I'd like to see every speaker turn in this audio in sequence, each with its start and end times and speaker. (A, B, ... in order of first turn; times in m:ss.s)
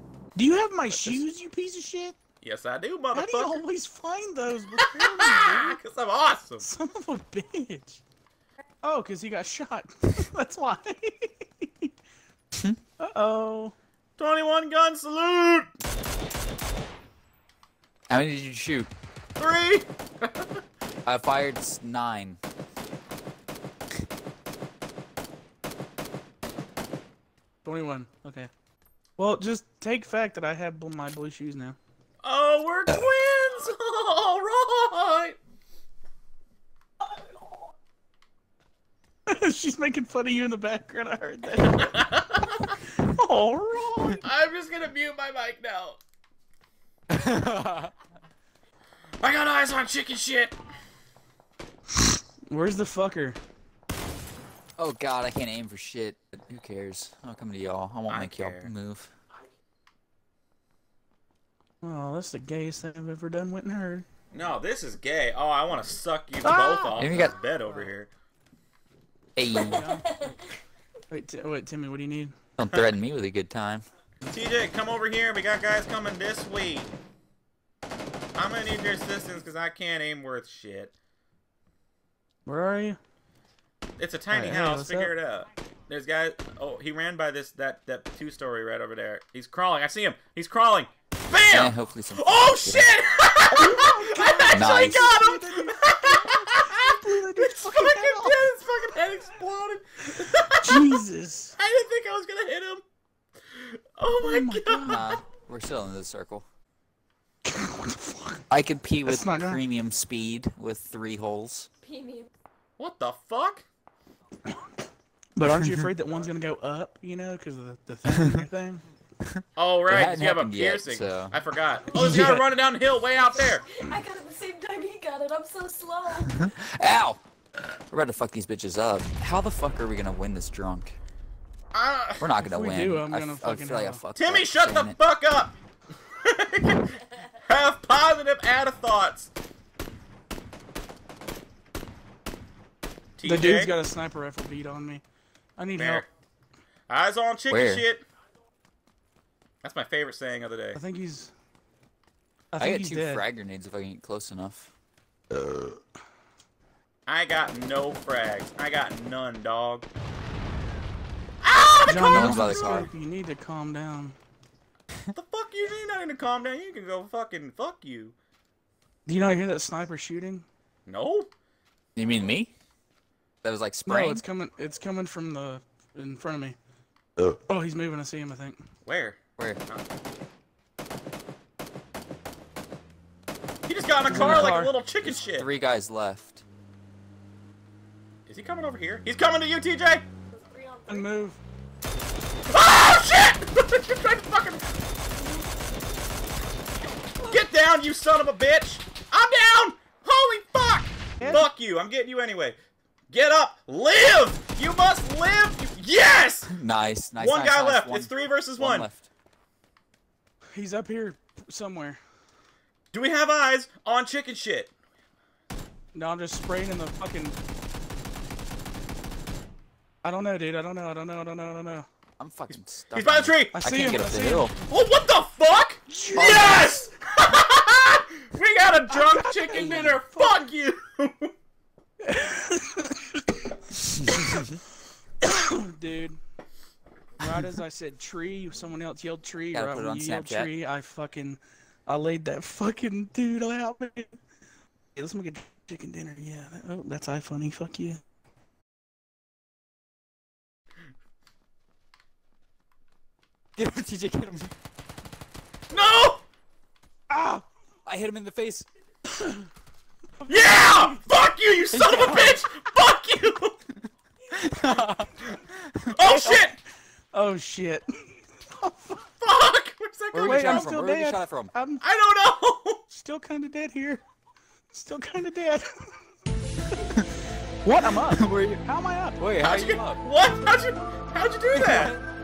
0:00.3-0:02.2 A
0:02.4-0:03.6 B
0:03.1-0:05.8 A
0:04.8-0:06.6 B
0:06.6-0:08.0 A
0:08.8-0:11.9 A
0:13.0-0:13.8 A
0:14.2-0:15.7 B
0:18.1-0:18.9 C
0:19.4-0:20.5 B
0:21.1-0:22.4 C
0:27.6-0:28.5 A
0:29.2-0:31.8 A
0:32.2-0:35.4 B
0:39.3-0:41.9 A
0:41.6-0:42.8 B
0:43.0-0:44.2 A
0:44.2-0:46.0 B
0:47.1-0:47.9 C
0:49.2-0:50.5 B
0:52.5-0:53.4 A
0:54.8-0:59.1 C
0:58.1-0:58.7 B
1:01.8-1:04.0 A
1:04.3-1:08.1 B
1:06.4-1:07.0 A
1:07.0-1:07.4 C
1:09.4-1:09.9 C
1:09.5-1:10.4 A
1:11.1-1:12.4 A
1:12.6-1:13.8 C
1:14.2-1:16.9 B
1:18.4-1:20.9 B
1:22.4-1:23.0 A
1:24.0-1:41.0 B
1:24.3-1:25.1 A
1:31.5-1:32.9 C
1:33.5-1:38.4 A
1:34.5-1:35.1 C
1:40.6-1:41.5 A
1:41.6-1:42.8 B
1:43.5-1:45.1 B
1:44.2-1:45.0 A
1:44.9-1:46.4 C
1:47.4-1:48.4 A
1:48.5-1:51.7 C
1:49.0-1:49.6 A
1:51.9-1:52.3 D
1:52.8-1:53.6 B
1:55.4-1:58.8 A
1:59.3-2:02.5 C
1:59.6-2:03.8 B
2:03.8-2:06.4 D
2:06.3-2:07.2 C
2:07.9-2:11.0 C
2:11.7-2:12.3 B
2:12.2-2:15.0 C
2:12.4-2:14.0 A
2:14.2-2:15.5 B
2:16.1-2:19.3 B
2:23.2-2:23.8 B
2:23.2-2:25.0 A
2:25.6-2:26.0 A
2:25.8-2:26.1 B
2:26.9-2:28.0 B
2:27.5-2:27.9 C
2:29.6-2:30.8 B
2:30.8-2:31.3 A
2:32.5-2:33.2 A
2:32.6-2:34.7 C
2:37.1-2:39.9 B
2:41.4-2:42.9 B
2:41.9-2:44.2 A
2:42.0-2:42.9 C
2:45.1-2:48.1 B
2:49.0-2:50.4 A
2:50.9-2:51.3 B
2:52.0-2:52.5 C
2:53.4-2:54.2 C
2:53.9-2:56.6 A
2:57.5-2:58.6 A
2:58.8-2:59.8 B
3:03.7-3:05.5 B
3:04.1-3:04.8 A
3:04.1-3:06.4 C
3:08.3-3:10.0 B
3:10.4-3:11.0 D
3:10.9-3:11.4 A
3:12.5-3:14.7 B
3:17.2-3:22.6 B
3:21.2-3:21.5 A
3:23.1-3:26.5 B
3:26.5-3:29.1 C
3:27.2-3:28.9 B
3:30.5-3:32.0 A
3:32.9-3:34.7 B
3:35.9-3:37.4 A
3:40.0-3:41.9 A
3:42.2-3:44.5 C
3:43.0-3:43.7 B
3:43.5-3:44.5 A
3:44.6-3:51.3 B
3:45.9-3:46.7 A
3:46.2-3:46.6 C
3:48.9-3:50.0 A
3:49.5-3:50.0 C
3:52.0-3:53.3 A
3:54.1-3:54.4 A
3:54.2-3:54.6 C
3:55.2-3:56.2 A
3:57.2-4:04.1 A
3:59.5-4:00.5 C
4:04.9-4:08.0 A
4:13.6-4:14.5 C
4:15.7-4:16.2 B
4:17.1-4:17.4 A
4:17.9-4:18.7 C
4:19.1-4:19.4 A
4:20.3-4:23.6 B
4:21.8-4:22.3 C
4:21.8-4:22.4 A
4:24.3-4:25.9 C
4:25.9-4:26.6 B
4:26.0-4:26.5 A
4:27.1-4:27.9 A
4:28.4-4:29.0 A
4:29.2-4:30.7 B
4:30.1-4:31.5 C
4:30.2-4:31.8 A
4:31.8-4:32.8 B
4:32.9-4:34.0 A
4:34.7-4:35.8 A
4:36.8-4:37.1 C
4:37.6-4:39.2 A
4:38.1-4:38.6 C
4:39.2-4:40.0 C
4:39.4-4:41.9 B
4:41.5-4:42.0 C